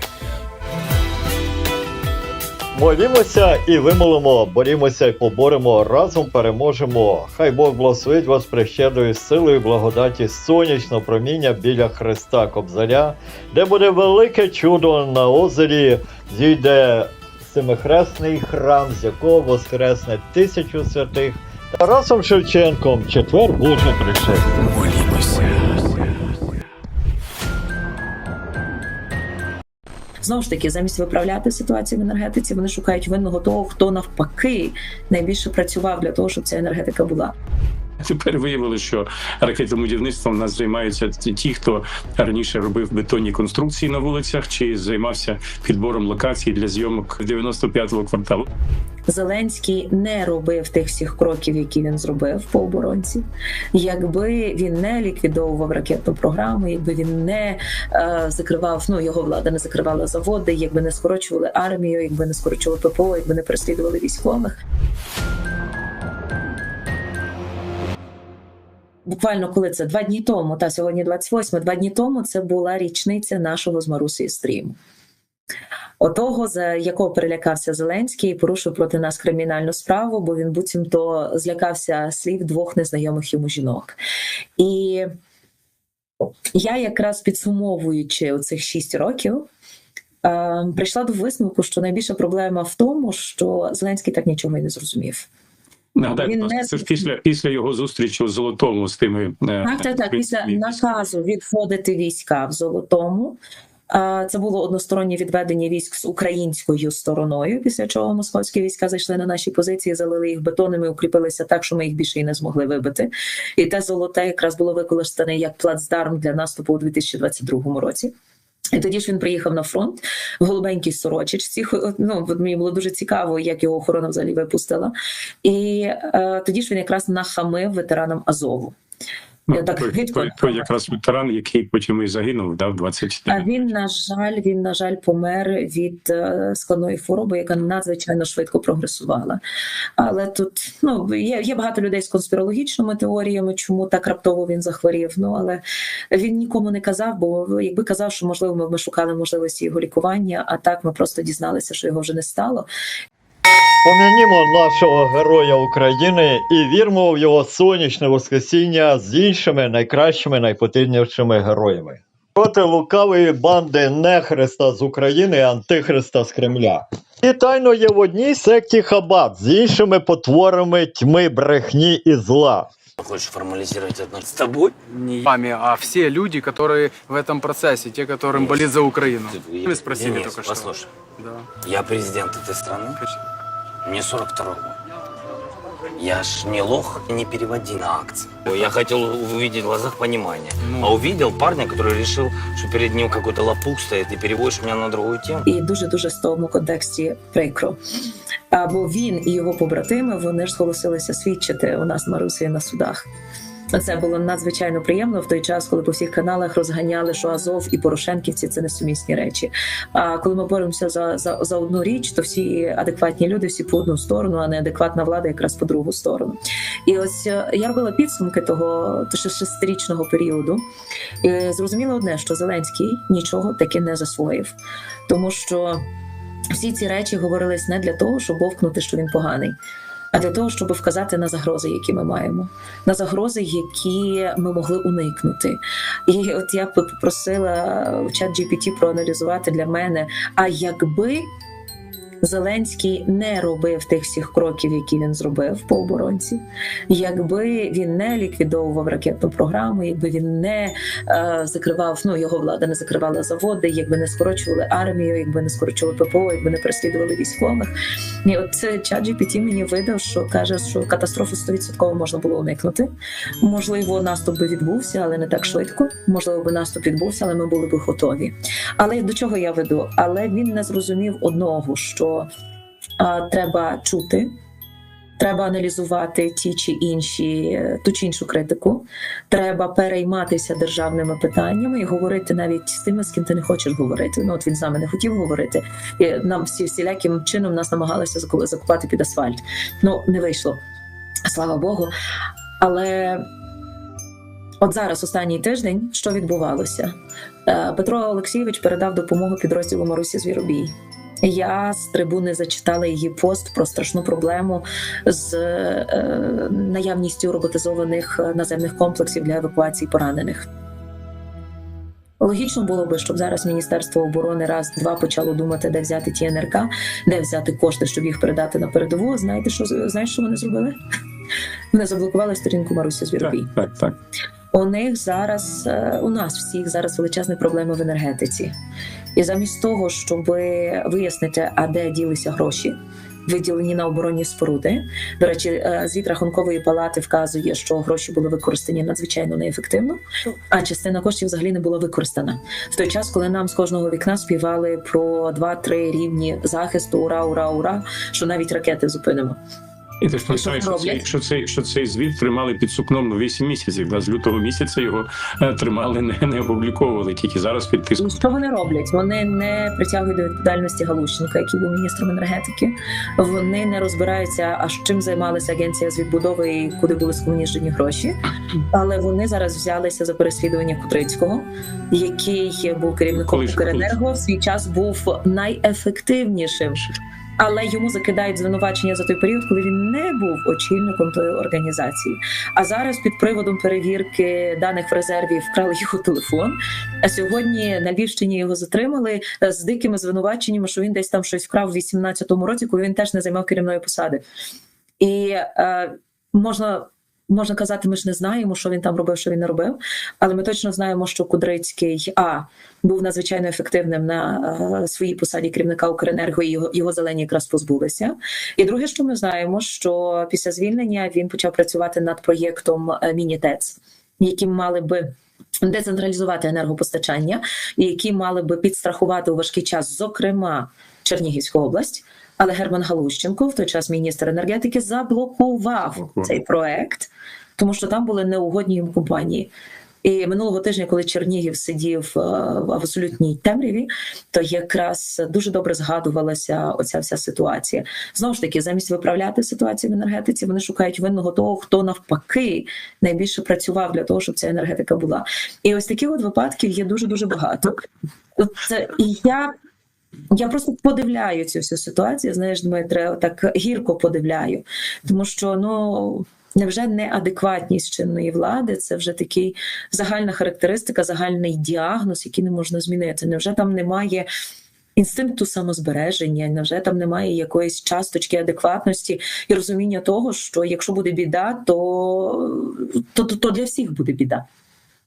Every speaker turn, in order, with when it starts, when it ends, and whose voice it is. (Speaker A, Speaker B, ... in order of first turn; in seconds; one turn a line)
Speaker A: 2.7-24.4
Speaker B: 30.2-37.3
Speaker C: 38.0-48.5
Speaker B: 49.1-53.2
Speaker B: 53.7-64.6
Speaker B: 69.1-74.8
Speaker B: 76.0-84.0
Speaker B: 84.6-85.1
Speaker B: 86.5-89.5
Speaker B: 90.2-95.3
Speaker C: 96.0-100.8
Speaker B: 96.2-97.0
Speaker B: 99.6-103.4
Speaker B: 103.9-118.1
Speaker B: 118.7-128.7
Speaker C: 129.5-133.7
Speaker B: 129.5-130.7
Speaker B: 133.3-139.4
Speaker B: 140.0-152.7
Speaker A: 153.8-172.7
Speaker D: 173.0-174.7
Speaker E: 174.9-181.5
Speaker D: 178.3-178.7
Speaker D: 179.3-180.9
Speaker D: 181.6-182.9
Speaker D: 183.8-184.8
Speaker D: 186.0-195.4
Speaker E: 190.6-191.0
Speaker B: 195.4-197.8
Speaker B: 198.5-203.1
Speaker B: 203.7-220.6
Speaker B: 221.2-224.5
Speaker B: 225.1-225.8
Speaker B: 226.5-229.6
Speaker B: 230.1-241.3
Speaker B: 242.2-257.7
Speaker B: 258.2-262.9
Speaker B: 263.4-272.3
Speaker B: 273.0-274.3
Speaker B: 275.2-290.6
Speaker B: 291.3-291.9
Speaker B: 292.6-293.2
Speaker B: 294.6-296.9
Speaker B: 297.4-300.7
Speaker B: 301.2-310.5
Speaker B: 312.2-320.8
Speaker B: 321.7-323.5
Speaker C: 323.2-324.0
Speaker B: 324.5-328.5
Speaker B: 329.1-332.7
Speaker B: 333.3-349.4
Speaker C: 350.0-358.2
Speaker B: 350.3-351.1
Speaker B: 358.0-368.1
Speaker B: 368.7-394.2
Speaker C: 373.1-374.0
Speaker B: 395.0-415.0
Speaker B: 415.6-429.5
Speaker C: 426.0-426.3
Speaker B: 430.0-447.8
Speaker B: 448.4-449.5
Speaker B: 450.3-464.3
Speaker B: 465.0-474.4